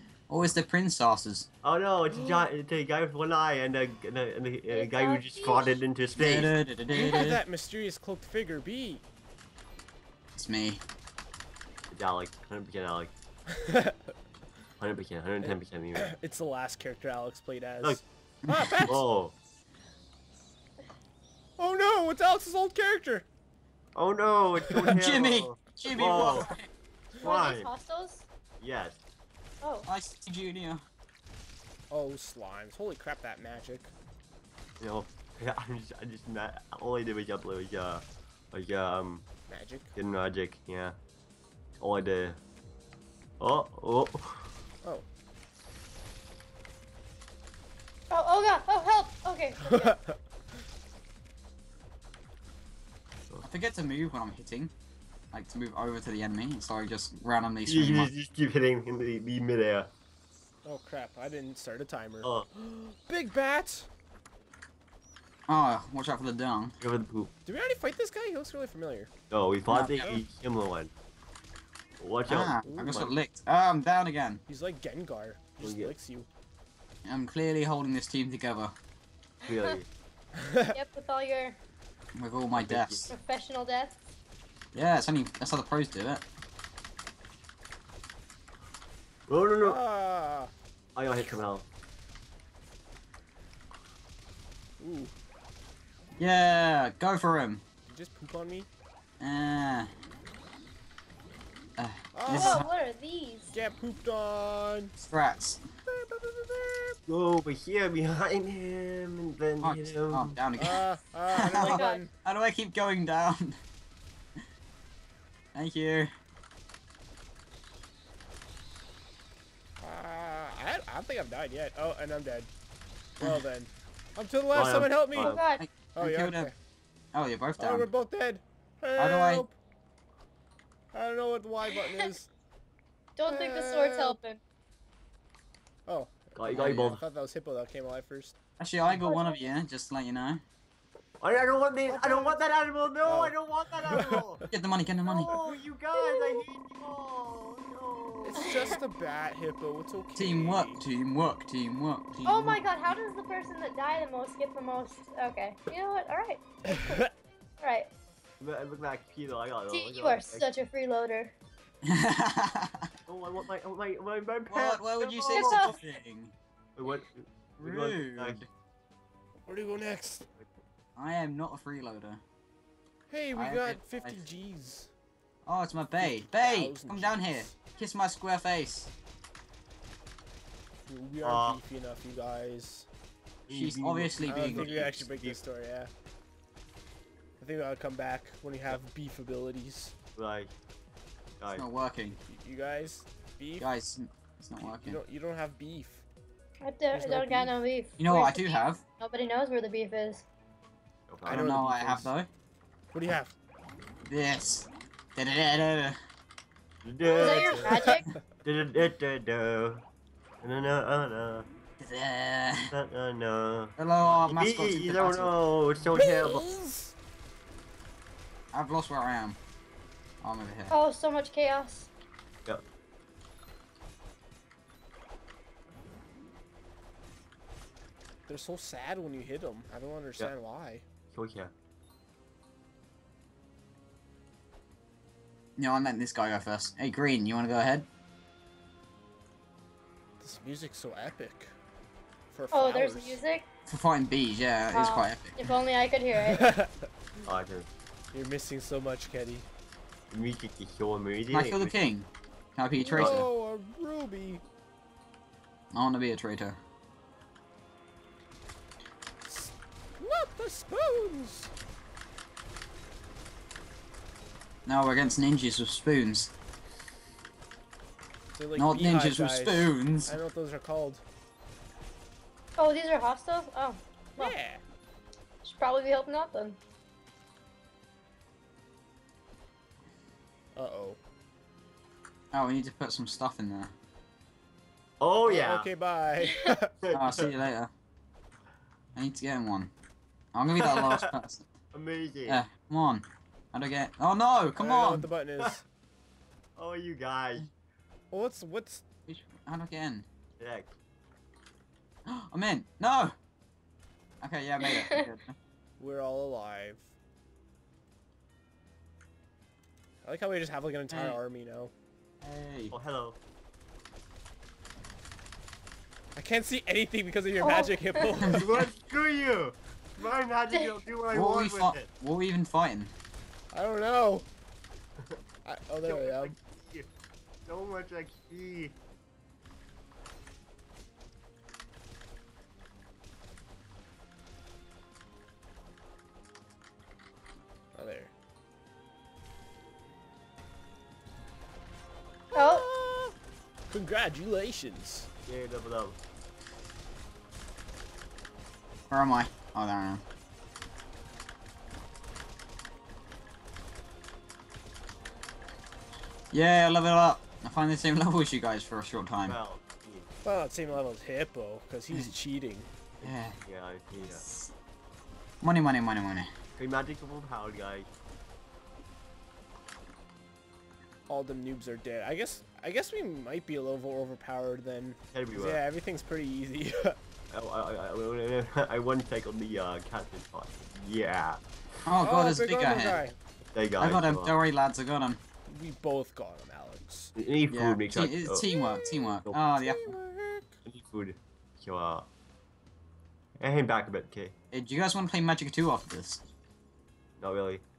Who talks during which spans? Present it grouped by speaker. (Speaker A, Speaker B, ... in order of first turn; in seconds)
Speaker A: 0.3-1.5, 6.2-7.4, 10.3-10.8, 18.4-18.9, 24.9-26.7, 29.9-30.8, 53.4-54.7, 55.3-58.1, 65.5-66.8, 69.7-70.2, 72.3-74.4, 77.0-78.7, 82.2-83.1, 84.7-86.2, 96.2-97.6, 99.2-99.9, 101.8-102.7, 105.0-105.6, 109.6-113.6, 115.5-116.1, 125.6-126.5, 127.1-127.9, 129.0-129.4, 136.5-136.9, 138.6-140.4, 144.5-145.3, 150.1-152.9, 161.9-162.8, 164.5-166.3, 167.6-168.5, 170.9-172.2, 173.3-174.2, 175.4-178.9, 183.5-184.9, 191.5-192.2, 193.6-195.0, 198.0-198.8, 201.3-202.3, 204.0-205.9, 211.8-212.7, 213.8-215.4, 218.5-219.4, 220.2-220.7, 235.6-237.9, 243.7-245.4, 251.3-253.3, 255.7-256.6, 264.6-266.3, 268.6-270.1, 282.3-283.7, 286.9-287.7, 288.9-289.7, 290.3-291.4, 292.2-295.1, 299.1-300.1, 302.1-303.1, 304.2-305.3, 310.9-311.2, 312.2-312.7, 318.2-318.6, 321.1-322.9, 348.9-350.0, 356.3-359.4, 363.0-363.4, 364.0-364.5, 365.4-366.3, 381.9-383.0, 383.8-385.2, 387.5-389.9, 394.5-396.2
Speaker B: 1.6-6.5, 11.9-13.1, 14.8-16.1, 18.9-19.3, 23.9-26.5, 27.1-27.7, 28.6-29.0, 34.8-39.3, 39.9-41.0, 41.8-42.4, 43.4-44.5, 57.7-59.9, 66.8-67.3, 69.3-70.9, 72.0-73.1, 75.6-75.9, 79.5-79.8, 82.6-83.1, 89.3-89.8, 91.0-91.7, 107.1-110.4, 124.5-125.4, 136.3-137.0, 141.2-144.4, 145.0-148.8, 158.4-160.4, 163.1-165.7, 166.8-168.4, 181.2-181.6, 183.5-185.4, 190.2-190.5, 191.4-191.7, 201.1-201.5, 206.8-207.8, 208.4-209.8, 210.4-211.4, 212.7-216.4, 231.1-231.5, 247.2-247.7, 250.1-251.7, 252.9-253.2, 285.0-285.7, 286.8-287.3, 290.6-291.1, 291.7-292.4, 296.6-297.5, 300.4-300.7, 312.7-313.2, 318.3-321.9, 325.8-326.9, 327.5-328.7, 345.2-346.0, 359.2-360.1, 363.0-364.2, 366.6-367.9, 375.1-375.6, 377.3-381.4, 383.5-384.3, 387.1-388.4, 390.6-392.1, 393.4-394.3, 397.2-397.6
Speaker C: 2.2-2.4, 6.9-9.0, 13.6-14.0, 15.4-19.0, 21.6-23.3, 24.7-24.9, 31.9-33.9, 39.5-39.9, 60.6-63.9, 67.5-69.1, 72.7-73.0, 74.5-76.3, 80.4-80.7, 89.6-90.5, 94.8-95.1, 97.9-98.7, 102.1-102.7, 103.5-104.9, 105.9-106.9, 110.6-112.1, 119.8-122.5, 123.2-125.4, 125.9-126.5, 127.6-129.6, 130.9-132.3, 133.3-134.2, 135.8-138.3, 141.9-142.4, 143.0-144.2, 148.2-150.8, 156.7-157.1, 169.5-170.2, 173.1-174.9, 176.0-177.5, 180.9-182.9, 184.2-185.9, 187.4-189.9, 192.2-193.7, 194.8-196.0, 196.9-197.6, 201.2-202.1, 202.9-203.3, 207.2-208.2, 215.9-216.9, 228.3-230.8, 240.2-241.5, 242.3-243.2, 246.3-246.7, 248.1-249.5, 252.8-254.4, 259.2-261.5, 268.3-271.0, 274.2-274.6, 280.5-281.0, 285.2-286.7, 294.6-295.6, 298.1-298.8, 305.8-306.9, 310.0-311.7, 316.1-318.6, 323.5-324.3, 325.4-326.3, 337.7-338.1, 342.3-343.1, 343.7-345.1, 360.2-362.7, 371.1-377.0, 382.0-383.1, 385.5-387.1, 388.5-390.6
Speaker D: 4.7-5.8, 27.2-28.2, 29.6-29.9, 48.1-50.0, 79.5-79.7, 80.7-81.6, 83.1-84.0, 102.3-103.5, 111.5-112.0, 125.2-125.6, 131.7-132.1, 133.2-134.4, 139.0-139.4, 146.0-146.4, 152.2-157.0, 157.6-157.9, 159.7-161.3, 165.3-165.8, 196.6-200.2, 207.0-208.1, 220.7-221.9, 242.5-243.4, 244.7-246.6, 272.6-274.3, 275.4-276.6, 286.2-286.5, 304.6-304.9, 317.4-318.1, 320.5-320.8, 342.3-342.7